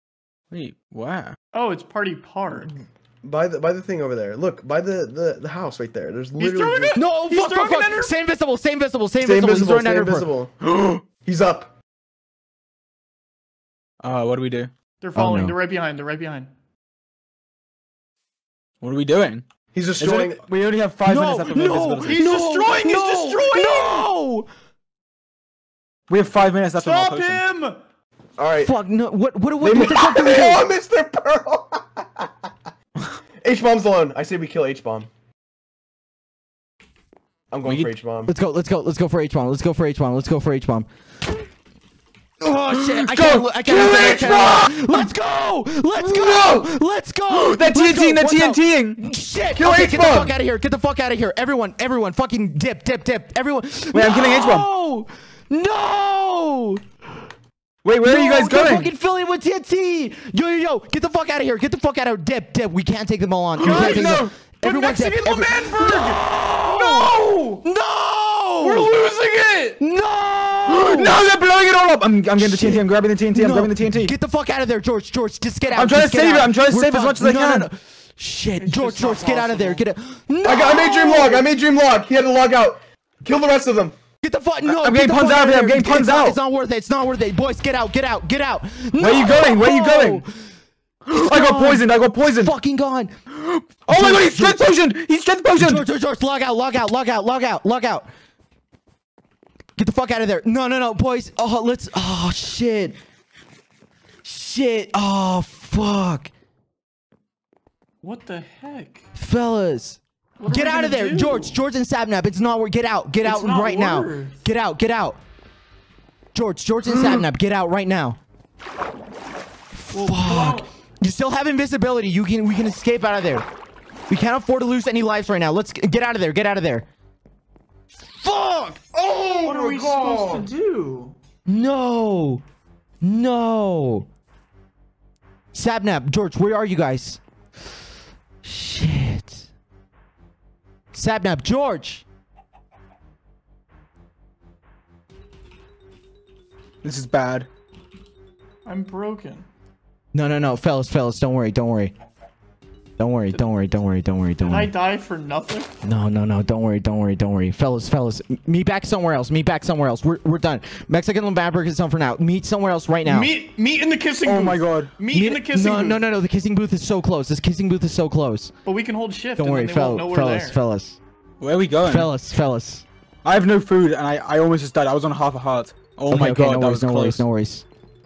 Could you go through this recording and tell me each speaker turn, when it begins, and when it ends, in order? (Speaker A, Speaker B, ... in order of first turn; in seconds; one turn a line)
Speaker A: 0.5-1.3
Speaker B: 1.5-2.7
Speaker C: 3.2-7.0
Speaker B: 6.4-8.1
Speaker D: 6.9-10.3
Speaker C: 9.2-11.7
Speaker A: 14.0-14.7
Speaker B: 15.0-16.5
Speaker D: 15.1-15.5
Speaker A: 18.8-19.4
Speaker C: 19.7-20.4
Speaker A: 20.0-22.3
Speaker D: 21.0-24.5
Speaker B: 22.0-24.1
Speaker A: 26.1-27.4
Speaker B: 26.7-27.8
Speaker C: 28.4-28.7
Speaker D: 28.6-30.6
Speaker C: 29.6-32.3
Speaker C: 33.4-35.1
Speaker C: 37.5-38.3
Speaker D: 38.2-40.9
Speaker D: 42.4-56.8
Speaker A: 42.8-43.5
Speaker C: 43.3-45.1
Speaker C: 46.0-46.7
Speaker A: 47.3-49.0
Speaker C: 49.5-50.3
Speaker A: 53.9-54.7
Speaker A: 57.8-58.9
Speaker D: 58.0-68.9
Speaker A: 63.6-64.3
Speaker B: 63.6-67.6
Speaker B: 68.6-69.8
Speaker D: 69.8-71.2
Speaker A: 70.7-74.1
Speaker D: 72.4-81.5
Speaker A: 75.7-77.7
Speaker B: 78.6-79.8
Speaker C: 80.4-83.9
Speaker D: 84.2-90.3
Speaker A: 84.6-86.4
Speaker A: 89.0-90.2
Speaker A: 91.0-92.5
Speaker D: 91.1-93.1
Speaker A: 93.3-95.8
Speaker D: 93.9-94.6
Speaker D: 95.5-98.1
Speaker D: 99.8-103.0
Speaker D: 104.2-106.3
Speaker B: 108.0-109.0
Speaker D: 109.2-115.2
Speaker B: 110.4-111.5
Speaker B: 113.2-114.4
Speaker D: 116.3-118.2
Speaker D: 119.7-123.5
Speaker B: 119.9-120.7
Speaker D: 124.1-126.8
Speaker B: 128.2-128.8
Speaker C: 128.9-130.4
Speaker B: 129.4-131.2
Speaker D: 131.4-132.4
Speaker D: 133.0-134.1
Speaker D: 135.5-137.2
Speaker D: 138.4-139.4
Speaker D: 140.9-142.0
Speaker A: 146.8-147.5
Speaker B: 148.6-149.4
Speaker D: 150.1-151.9
Speaker D: 153.0-154.7
Speaker B: 154.4-155.7
Speaker D: 155.8-163.3
Speaker B: 163.0-166.1
Speaker A: 164.2-164.9
Speaker D: 165.1-168.5
Speaker B: 168.6-170.6
Speaker D: 169.4-171.0
Speaker A: 171.4-172.1
Speaker D: 171.8-172.8
Speaker A: 173.2-177.2
Speaker D: 176.1-177.6